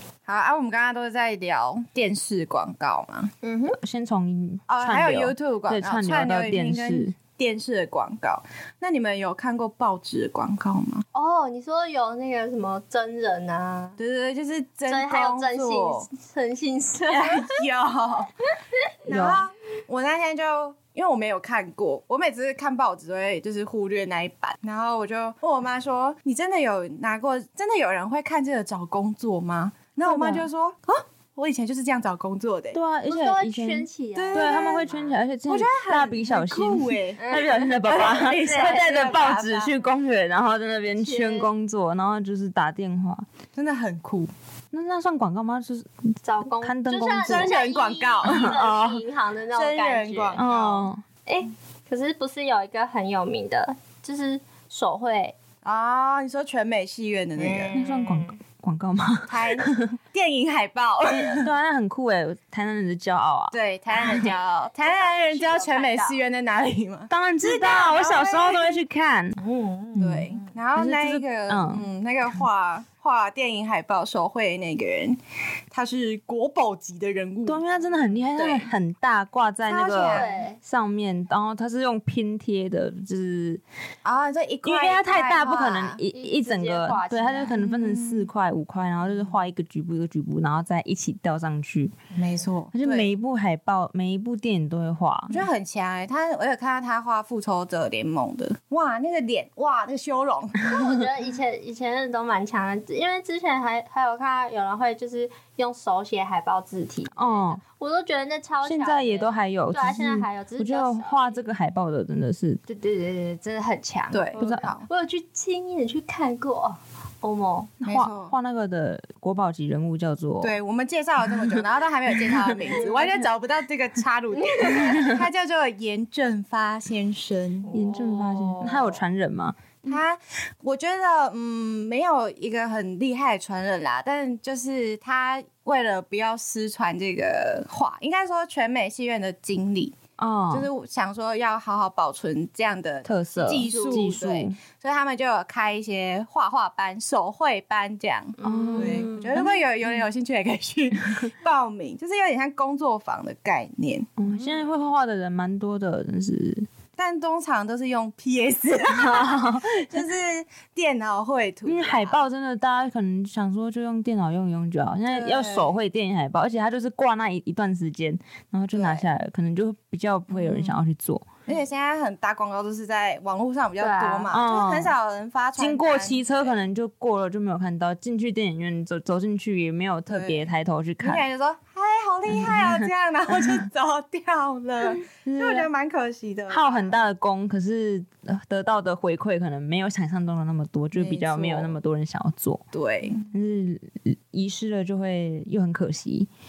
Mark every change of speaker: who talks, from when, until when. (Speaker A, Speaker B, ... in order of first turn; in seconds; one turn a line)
Speaker A: 0.3-3.3
Speaker B: 3.4-3.8
Speaker C: 3.8-7.1
Speaker A: 4.7-11.1
Speaker B: 11.1-14.0
Speaker A: 14.0-16.1
Speaker B: 14.9-17.6
Speaker A: 17.1-18.3
Speaker A: 19.1-32.8
Speaker C: 19.1-19.4
Speaker C: 30.0-30.5
Speaker C: 32.7-43.3
Speaker B: 33.1-35.1
Speaker A: 34.1-34.9
Speaker A: 35.5-37.2
Speaker B: 37.2-37.8
Speaker A: 37.8-39.7
Speaker B: 38.4-38.8
Speaker B: 41.0-41.5
Speaker A: 43.5-44.3
Speaker C: 44.7-45.9
Speaker B: 46.2-50.4
Speaker C: 46.6-47.5
Speaker A: 47.3-48.6
Speaker C: 48.2-49.0
Speaker A: 49.5-50.9
Speaker C: 50.4-51.0
Speaker B: 51.3-55.4
Speaker A: 55.6-57.8
Speaker B: 57.4-58.4
Speaker C: 57.7-59.9
Speaker A: 59.3-61.5
Speaker C: 61.1-64.3
Speaker A: 63.5-68.8
Speaker B: 64.2-66.2
Speaker C: 67.1-69.4
Speaker B: 69.4-70.5
Speaker A: 70.0-75.2
Speaker C: 70.8-71.9
Speaker A: 75.7-77.6
Speaker C: 77.5-83.6
Speaker A: 78.3-78.7
Speaker A: 79.7-80.3
Speaker B: 80.0-80.6
Speaker A: 84.0-86.0
Speaker C: 84.7-92.0
Speaker B: 86.1-87.6
Speaker A: 87.5-88.3
Speaker A: 89.1-89.3
Speaker A: 92.1-93.1
Speaker C: 92.7-95.5
Speaker A: 95.3-100.7
Speaker B: 100.6-111.4
Speaker C: 107.2-107.6
Speaker C: 108.6-112.6
Speaker B: 112.7-117.7
Speaker A: 114.1-114.9
Speaker C: 114.4-114.7
Speaker A: 117.8-118.3
Speaker C: 117.8-120.5
Speaker A: 120.4-127.7
Speaker C: 121.3-123.1
Speaker B: 122.7-123.2
Speaker B: 124.3-125.2
Speaker B: 127.7-128.9
Speaker C: 127.7-130.0
Speaker A: 129.9-139.9
Speaker C: 140.2-140.7
Speaker A: 140.5-154.2
Speaker C: 143.1-144.6
Speaker B: 143.3-144.2
Speaker B: 148.4-149.2
Speaker C: 148.4-149.6
Speaker C: 154.2-156.7
Speaker A: 157.0-162.2
Speaker C: 158.9-160.0
Speaker C: 161.7-171.3
Speaker A: 165.1-165.7
Speaker A: 168.7-169.1
Speaker A: 170.3-170.8
Speaker A: 171.5-176.6
Speaker B: 173.8-174.3
Speaker C: 174.3-174.9
Speaker C: 175.6-181.2
Speaker A: 180.1-180.5
Speaker A: 181.0-187.0
Speaker C: 182.3-183.6
Speaker C: 184.8-185.7
Speaker C: 186.5-192.6
Speaker A: 190.9-191.8
Speaker A: 192.7-193.3
Speaker C: 193.3-196.3